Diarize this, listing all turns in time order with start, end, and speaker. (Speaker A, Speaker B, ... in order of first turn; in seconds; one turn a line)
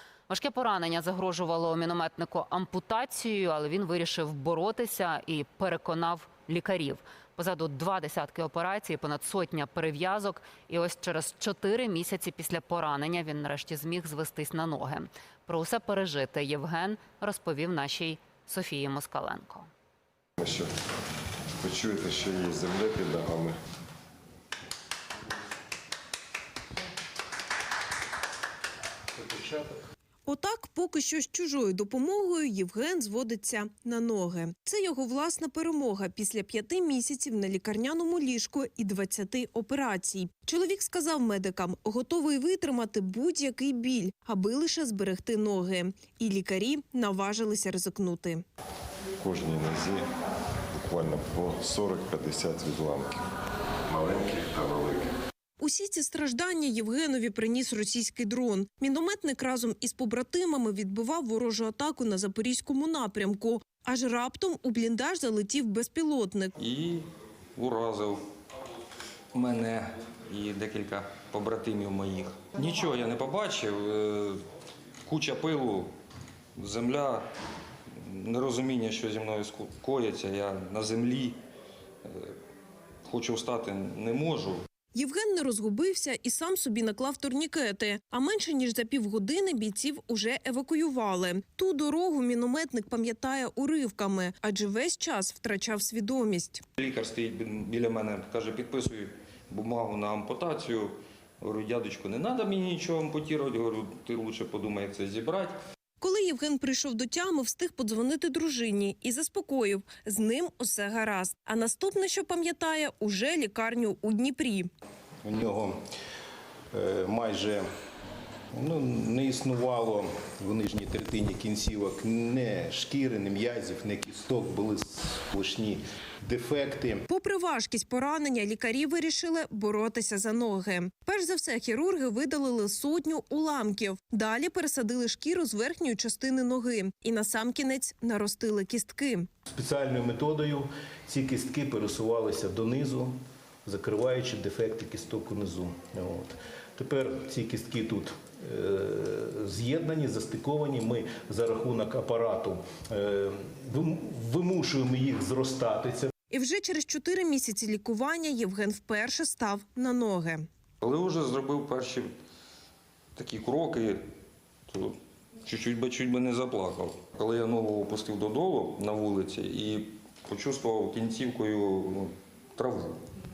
Speaker A: 0.3-19.7
Speaker B: 20.4-20.7
Speaker B: 21.6-23.6
Speaker C: 29.3-29.7
Speaker D: 30.3-48.4
Speaker B: 49.2-50.1
Speaker B: 50.7-53.2
Speaker B: 53.9-55.1
Speaker D: 55.6-66.5
Speaker E: 66.6-68.2
Speaker E: 69.3-74.4
Speaker E: 75.0-75.9
Speaker E: 76.6-77.3
Speaker E: 77.9-81.4
Speaker E: 82.0-82.4
Speaker E: 83.0-84.6
Speaker D: 84.9-96.6
Speaker E: 96.8-105.6
Speaker D: 106.0-114.7
Speaker C: 115.2-115.8
Speaker C: 116.7-117.7
Speaker C: 118.5-127.1
Speaker D: 127.1-139.3
Speaker C: 139.5-156.1
Speaker D: 156.3-160.5
Speaker E: 160.8-162.1
Speaker E: 163.2-164.0
Speaker E: 164.7-173.0